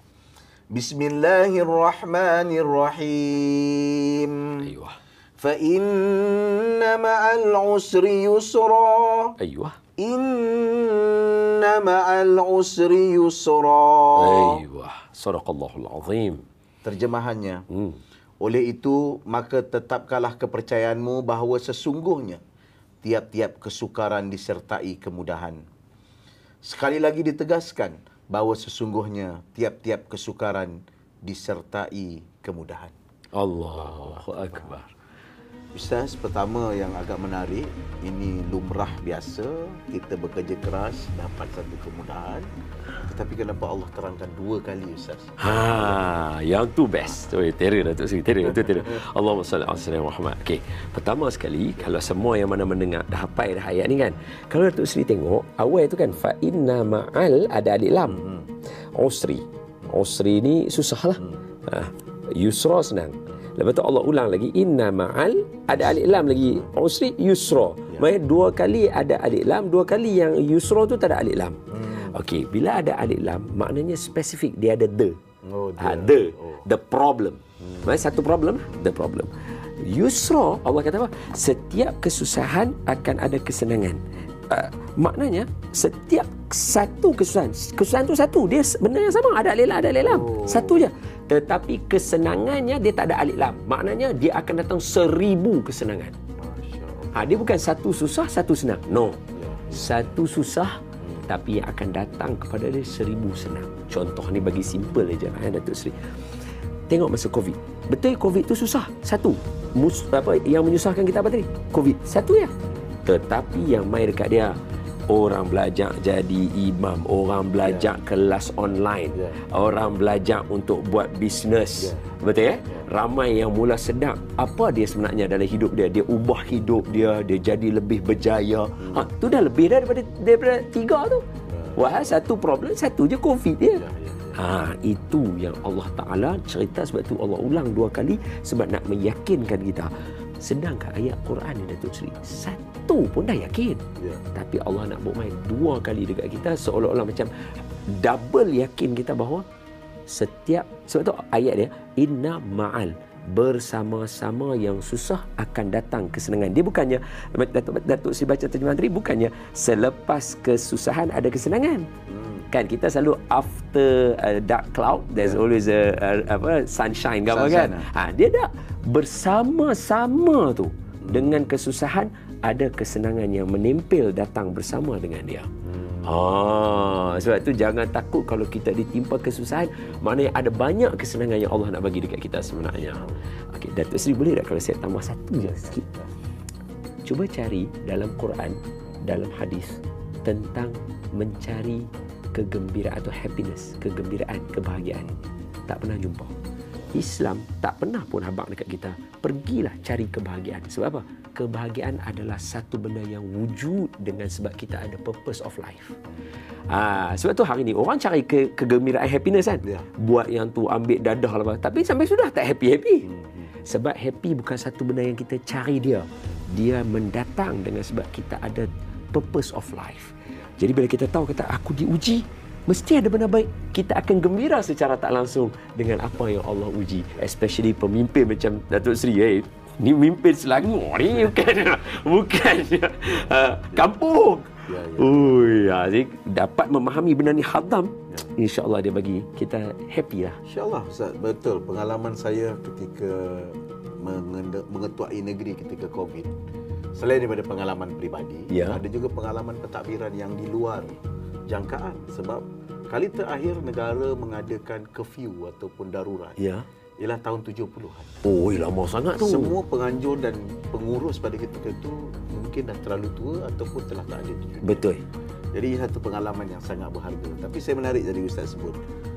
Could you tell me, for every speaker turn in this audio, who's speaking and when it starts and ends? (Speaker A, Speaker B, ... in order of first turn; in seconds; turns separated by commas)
Speaker A: 0.7-4.6, Speaker B: 4.6-5.0, Speaker A: 5.4-9.3, Speaker B: 9.4-9.8, Speaker A: 10.0-14.6, Speaker B: 14.2-16.4, Speaker A: 16.8-17.6, Speaker B: 17.7-18.0, Speaker A: 18.4-22.4, Speaker A: 23.0-25.6, Speaker A: 26.6-32.9, Speaker B: 33.3-34.9, Speaker A: 33.7-34.7, Speaker A: 35.7-42.5, Speaker A: 43.0-46.1, Speaker B: 45.4-58.2, Speaker A: 58.1-58.5, Speaker B: 59.0-75.2, Speaker A: 71.7-72.2, Speaker A: 75.4-76.6, Speaker B: 75.8-96.2, Speaker A: 77.6-78.0, Speaker A: 90.0-90.8, Speaker A: 96.4-97.4, Speaker B: 97.1-99.2, Speaker A: 99.3-100.2, Speaker B: 99.7-106.0, Speaker A: 101.0-101.3, Speaker B: 106.9-112.5, Speaker B: 113.0-114.6, Speaker B: 115.1-131.2, Speaker A: 117.6-117.9, Speaker A: 119.1-119.4, Speaker A: 121.8-122.1, Speaker A: 128.8-129.1, Speaker A: 131.5-132.2, Speaker B: 131.8-133.8, Speaker A: 133.7-134.4, Speaker B: 134.3-139.9, Speaker B: 140.4-143.8, Speaker A: 144.0-144.2, Speaker B: 144.3-147.3, Speaker B: 147.9-149.4, Speaker B: 150.1-161.9, Speaker A: 162.1-162.5, Speaker B: 162.5-175.5, Speaker A: 165.2-165.4, Speaker A: 167.2-167.9, Speaker A: 171.0-171.4, Speaker A: 175.7-176.4, Speaker B: 176.0-185.8, Speaker A: 182.8-183.2, Speaker A: 185.4-186.1, Speaker B: 187.1-195.1, Speaker A: 195.0-195.2, Speaker B: 195.7-196.3, Speaker B: 196.9-206.0, Speaker B: 206.7-213.1, Speaker A: 213.1-213.5, Speaker B: 213.7-240.4, Speaker A: 233.2-233.9, Speaker A: 234.7-235.2, Speaker A: 240.4-246.3, Speaker A: 246.9-250.9, Speaker B: 248.5-248.8, Speaker A: 251.5-256.4, Speaker B: 256.4-256.7, Speaker A: 257.0-258.2, Speaker B: 258.2-259.6, Speaker A: 259.1-264.8, Speaker B: 264.6-265.0, Speaker A: 265.5-268.8